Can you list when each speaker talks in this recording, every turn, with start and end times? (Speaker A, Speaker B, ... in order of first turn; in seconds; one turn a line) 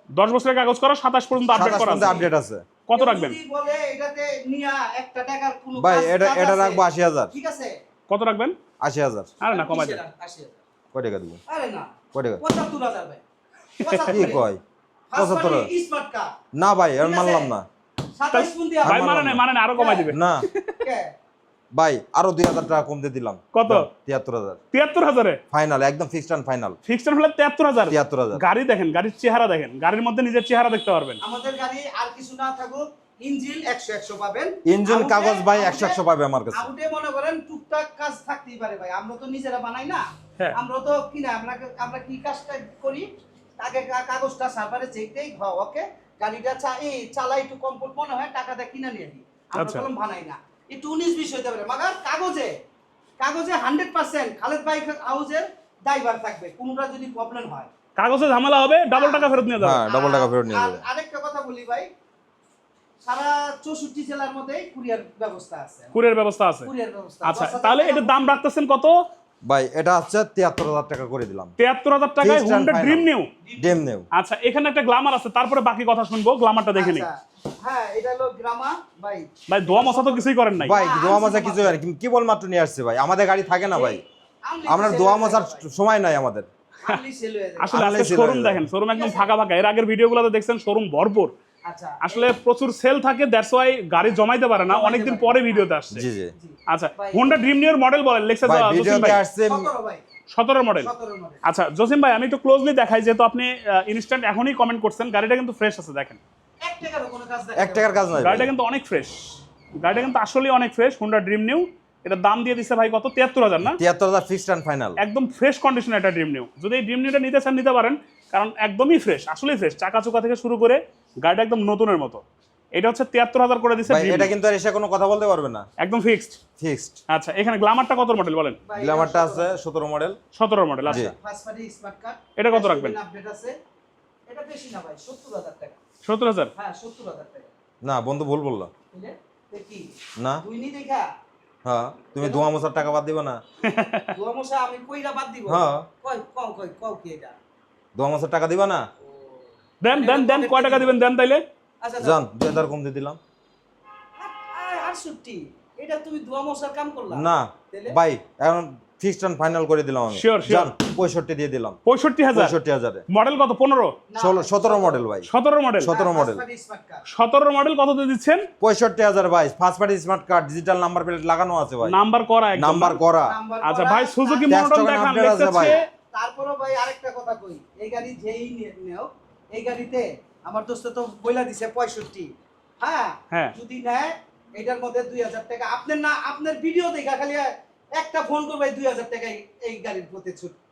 Speaker A: 0.2-2.2
Speaker B: 1.5-2.3
Speaker C: 1.5-2.6
Speaker A: 2.9-3.4
Speaker B: 2.9-7.8
Speaker C: 5.8-7.3
Speaker A: 8.1-8.6
Speaker C: 8.8-9.3
Speaker A: 9.4-10.0
Speaker B: 9.4-10.6
Speaker C: 10.9-11.4
Speaker B: 11.5-13.2
Speaker C: 12.1-12.4
Speaker B: 13.8-14.4
Speaker A: 13.8-14.2
Speaker C: 14.1-14.6
Speaker B: 15.1-16.3
Speaker C: 15.2-15.7
Speaker C: 16.5-17.6
Speaker B: 17.0-17.5
Speaker B: 18.2-19.1
Speaker A: 18.3-20.8
Speaker C: 18.8-19.4
Speaker B: 19.8-20.1
Speaker C: 20.1-20.4
Speaker B: 20.8-21.1
Speaker C: 21.7-24.6
Speaker A: 23.5-23.9
Speaker A: 24.7-25.4
Speaker C: 25.5-26.8
Speaker A: 26.9-31.2
Speaker C: 27.9-28.4
Speaker B: 31.2-36.0
Speaker C: 34.6-36.7
Speaker B: 36.5-43.1
Speaker B: 43.6-52.5
Speaker A: 49.5-49.9
Speaker B: 53.2-57.7
Speaker A: 58.0-59.8
Speaker B: 58.9-61.9
Speaker C: 59.6-60.8
Speaker B: 63.0-65.9
Speaker A: 65.9-66.7
Speaker B: 66.6-68.2
Speaker A: 67.2-69.0
Speaker C: 69.5-71.5
Speaker A: 71.6-73.3
Speaker C: 72.2-73.1
Speaker B: 73.4-73.8
Speaker C: 73.6-74.0
Speaker A: 74.1-77.1
Speaker B: 76.7-81.8
Speaker A: 79.5-80.8
Speaker C: 80.6-84.0
Speaker B: 83.7-85.7
Speaker C: 84.7-86.5
Speaker B: 86.8-87.8
Speaker A: 87.6-91.3
Speaker C: 87.7-88.6
Speaker B: 88.9-89.3
Speaker B: 91.7-92.3
Speaker A: 92.0-96.0
Speaker B: 94.7-95.7
Speaker C: 95.9-96.3
Speaker B: 96.4-97.3
Speaker A: 96.7-99.2
Speaker C: 98.5-99.7
Speaker B: 99.5-100.0
Speaker A: 100.3-100.9
Speaker B: 100.8-101.4
Speaker A: 101.4-106.2
Speaker B: 106.6-108.0
Speaker C: 107.5-108.5
Speaker A: 108.2-113.8
Speaker C: 113.6-115.0
Speaker A: 115.0-122.2
Speaker A: 122.7-124.3
Speaker C: 123.9-125.7
Speaker A: 125.8-126.4
Speaker C: 126.6-127.0
Speaker A: 127.1-128.6
Speaker B: 128.7-129.6
Speaker C: 128.8-130.2
Speaker A: 130.3-131.1
Speaker B: 130.8-133.5
Speaker C: 130.8-131.1
Speaker A: 132.4-132.9
Speaker B: 134.3-135.8
Speaker A: 136.0-136.5
Speaker B: 136.6-137.5
Speaker C: 137.8-138.7
Speaker B: 138.9-141.1
Speaker C: 140.2-140.4
Speaker C: 141.6-143.4
Speaker B: 142.2-142.4
Speaker A: 143.6-144.1
Speaker B: 144.1-147.4
Speaker C: 145.5-145.9
Speaker C: 147.9-148.8
Speaker A: 149.8-151.4
Speaker B: 149.9-150.9
Speaker B: 151.8-152.2
Speaker C: 152.0-153.2
Speaker B: 154.2-158.0
Speaker C: 157.1-161.8
Speaker A: 160.1-160.7
Speaker A: 161.8-162.5
Speaker C: 162.3-163.0
Speaker A: 163.1-164.0
Speaker B: 164.1-165.0
Speaker C: 164.2-165.3
Speaker A: 165.3-165.9
Speaker C: 165.8-166.4
Speaker B: 165.9-167.0
Speaker A: 167.1-168.5
Speaker C: 168.6-172.0
Speaker A: 171.8-173.0
Speaker C: 172.6-173.3
Speaker B: 173.2-174.6
Speaker A: 173.6-175.8
Speaker C: 174.5-175.8
Speaker B: 175.5-190.6
Speaker A: 183.3-183.6